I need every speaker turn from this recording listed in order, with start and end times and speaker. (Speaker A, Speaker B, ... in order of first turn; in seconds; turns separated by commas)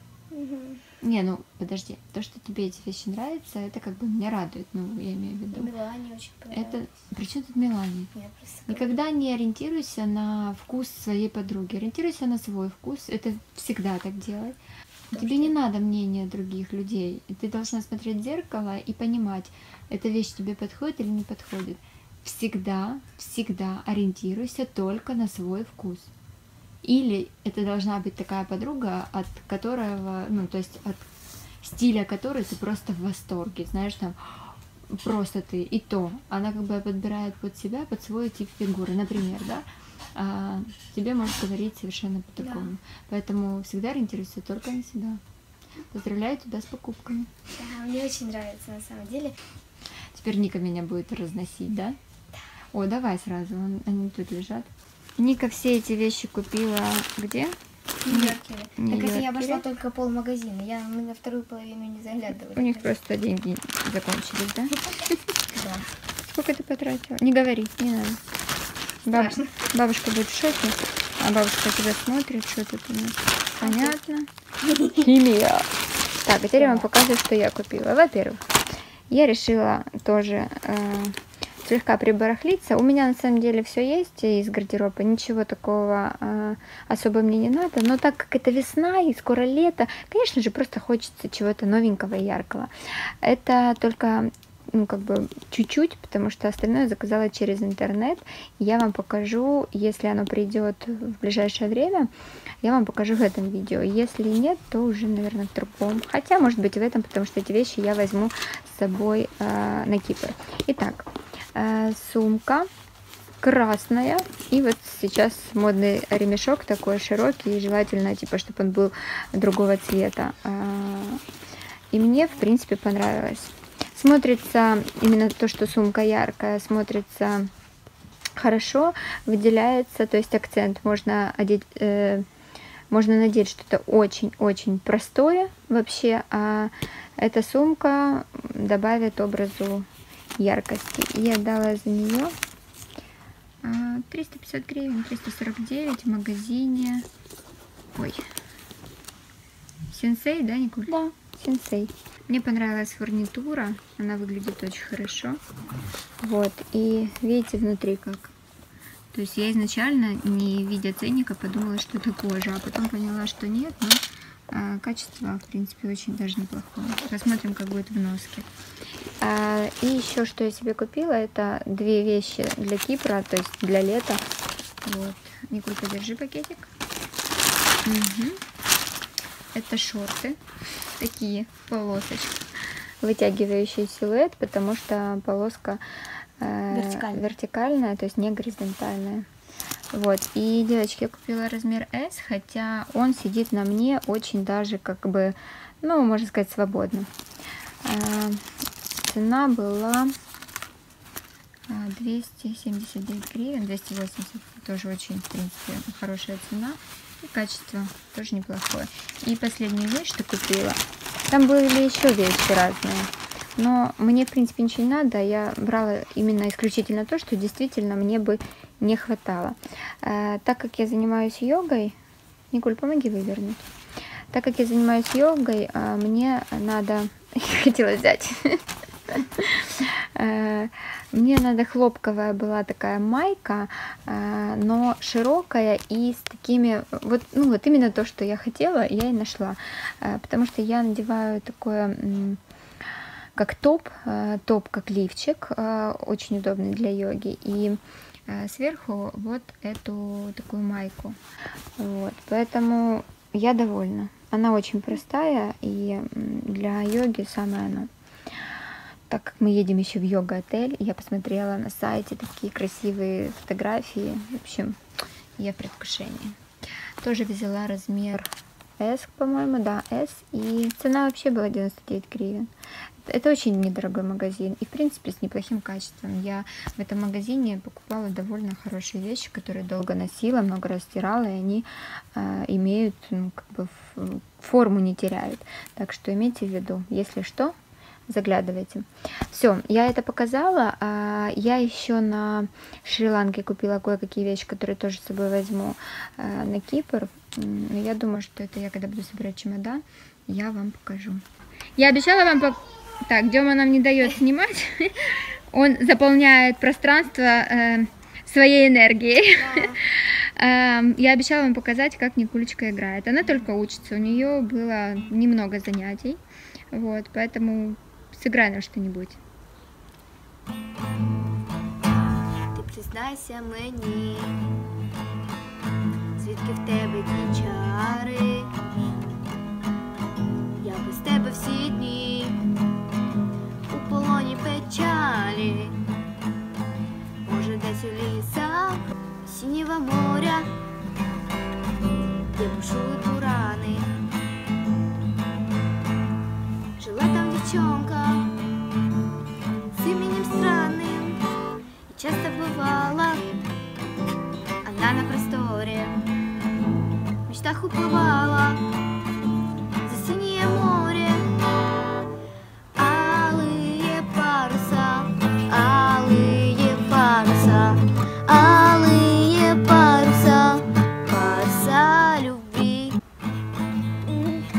Speaker A: 0.3-0.8, Speaker B: 1.0-5.7, Speaker A: 5.5-6.8, Speaker B: 6.5-8.1, Speaker A: 8.1-8.9, Speaker B: 8.7-14.6, Speaker A: 15.1-15.5, Speaker B: 15.1-26.1, Speaker B: 26.8-31.1, Speaker B: 31.6-45.2, Speaker A: 42.4-42.7, Speaker B: 45.9-47.3, Speaker A: 47.5-49.4, Speaker B: 50.1-52.0, Speaker B: 52.7-57.6, Speaker A: 58.0-62.9, Speaker B: 58.1-59.6, Speaker B: 62.5-65.2, Speaker A: 65.5-65.9, Speaker B: 66.2-68.2, Speaker B: 69.0-74.3, Speaker A: 69.1-69.5, Speaker A: 73.6-74.0, Speaker B: 74.9-75.7, Speaker B: 76.2-78.4, Speaker A: 76.5-76.9, Speaker B: 79.1-92.7, Speaker B: 93.2-102.1, Speaker B: 102.6-112.7, Speaker B: 113.4-121.2, Speaker B: 121.9-127.5, Speaker B: 128.4-132.2, Speaker B: 132.9-139.9, Speaker B: 140.4-142.3, Speaker B: 143.6-147.0, Speaker B: 147.9-148.2, Speaker B: 149.9-155.4, Speaker B: 156.2-158.3, Speaker B: 159.1-168.5, Speaker B: 169.2-174.2, Speaker B: 174.8-176.7, Speaker B: 177.8-178.4, Speaker B: 179.5-180.4, Speaker B: 181.0-182.4, Speaker B: 183.0-185.8, Speaker B: 186.4-189.3, Speaker A: 186.7-187.3, Speaker B: 189.9-197.1, Speaker B: 197.8-198.4, Speaker B: 199.0-200.1, Speaker B: 201.7-222.0, Speaker B: 222.5-223.6, Speaker B: 224.3-242.4, Speaker B: 243.4-251.2, Speaker B: 251.8-257.9, Speaker B: 259.1-264.8, Speaker B: 265.4-266.4, Speaker B: 267.0-272.5, Speaker B: 273.1-287.6, Speaker B: 288.1-301.2, Speaker B: 301.8-316.2, Speaker A: 309.3-309.8, Speaker B: 316.7-319.2, Speaker A: 322.5-324.4, Speaker A: 326.2-328.5, Speaker A: 330.6-332.4, Speaker A: 333.7-335.8, Speaker A: 337.2-340.5, Speaker A: 342.3-343.9, Speaker A: 346.8-348.3, Speaker A: 349.7-351.2, Speaker A: 351.9-353.4, Speaker A: 354.6-355.9, Speaker A: 357.3-358.6, Speaker A: 359.9-361.3, Speaker A: 362.8-373.0